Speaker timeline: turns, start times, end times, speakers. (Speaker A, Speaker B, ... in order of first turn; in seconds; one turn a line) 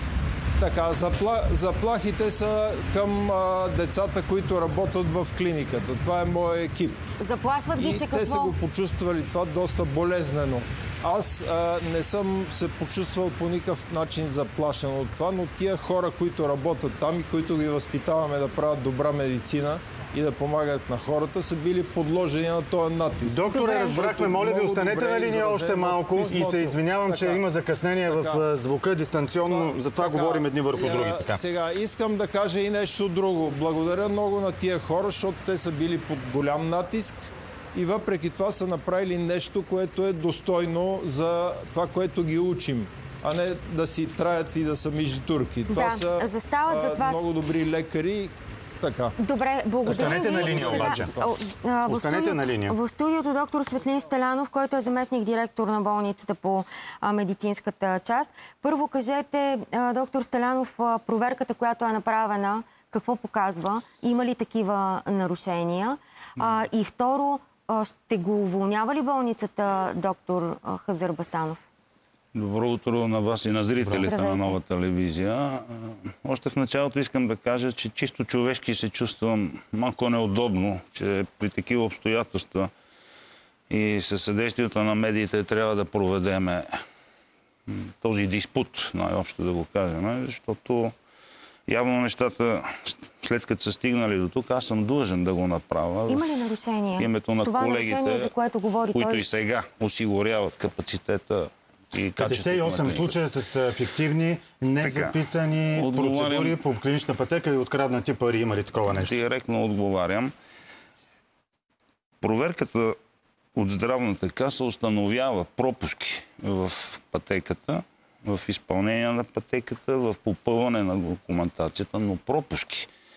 Speaker A: 0.6-7.1
Speaker B: 7.2-8.6
Speaker A: 7.8-27.4
Speaker C: 23.3-31.4
Speaker B: 23.5-24.0
Speaker A: 28.1-28.4
Speaker A: 29.4-37.2
Speaker A: 37.7-49.2
Speaker B: 45.7-47.2
Speaker B: 49.2-71.6
Speaker A: 49.9-51.3
Speaker C: 49.9-51.1
Speaker C: 51.9-52.8
Speaker D: 72.3-82.7
Speaker C: 73.8-74.1
Speaker B: 73.9-74.6
Speaker D: 83.7-86.8
Speaker D: 87.7-90.9
Speaker D: 91.7-98.3
Speaker B: 96.1-99.2
Speaker D: 98.9-103.2
Speaker C: 102.2-109.1
Speaker D: 104.8-105.2
Speaker D: 105.7-106.6
Speaker D: 109.0-110.3
Speaker D: 112.2-113.0
Speaker D: 113.6-122.9